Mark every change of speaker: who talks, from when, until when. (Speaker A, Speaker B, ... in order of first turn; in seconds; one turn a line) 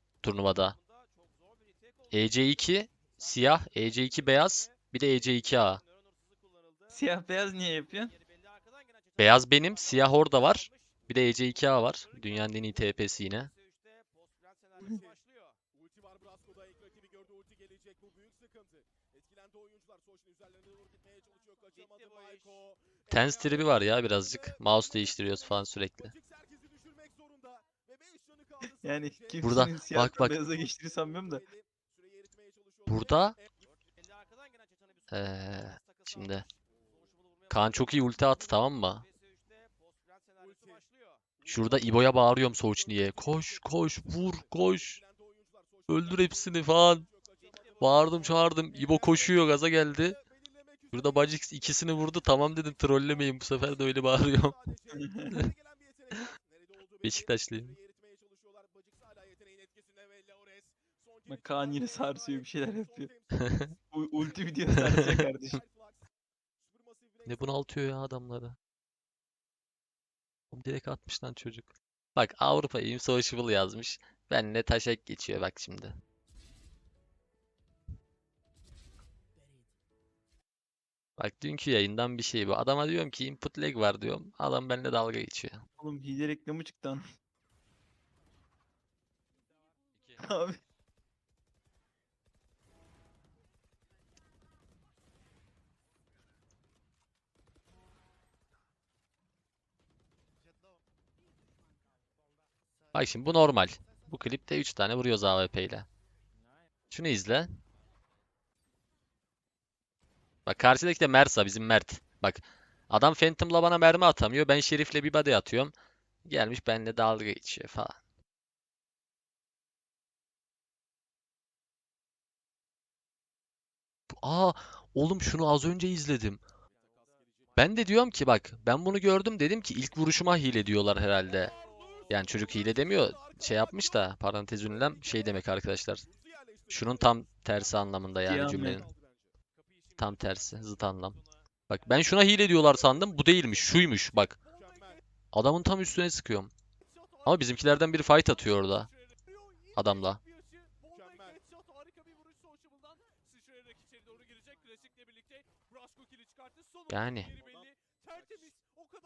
Speaker A: 0.2-0.8
Speaker B: 1.1-1.7
Speaker A: 2.1-5.8
Speaker C: 6.9-8.1
Speaker B: 8.0-9.2
Speaker A: 9.2-13.5
Speaker B: 13.4-15.5
Speaker D: 16.6-17.2
Speaker D: 20.9-21.8
Speaker B: 21.7-22.6
Speaker A: 23.1-26.1
Speaker C: 28.6-31.4
Speaker A: 29.4-30.4
Speaker A: 32.9-33.4
Speaker B: 33.6-35.2
Speaker A: 35.1-36.5
Speaker B: 35.7-36.2
Speaker B: 36.9-37.5
Speaker A: 37.5-39.0
Speaker B: 39.0-41.1
Speaker A: 41.5-45.0
Speaker A: 45.9-47.1
Speaker B: 47.4-48.2
Speaker A: 47.8-50.2
Speaker A: 50.9-54.6
Speaker C: 54.9-55.4
Speaker A: 57.0-57.8
Speaker C: 61.2-63.1
Speaker A: 63.3-63.7
Speaker C: 63.9-65.6
Speaker A: 67.2-68.5
Speaker A: 70.5-76.0
Speaker A: 81.2-85.6
Speaker C: 85.8-87.0
Speaker C: 90.2-90.6
Speaker A: 102.9-105.9
Speaker A: 106.9-107.6
Speaker A: 110.5-115.7
Speaker A: 116.2-118.0
Speaker A: 124.1-126.4
Speaker B: 126.8-127.1
Speaker A: 127.6-131.5
Speaker D: 131.3-132.2
Speaker A: 132.1-136.1
Speaker A: 136.7-138.9
Speaker C: 138.2-138.8
Speaker A: 140.0-144.3
Speaker D: 144.5-145.0
Speaker A: 145.3-146.5
Speaker A: 147.2-148.9
Speaker A: 149.8-150.2
Speaker D: 150.9-151.4
Speaker D: 154.6-155.1
Speaker A: 156.9-157.3
Speaker D: 157.4-158.5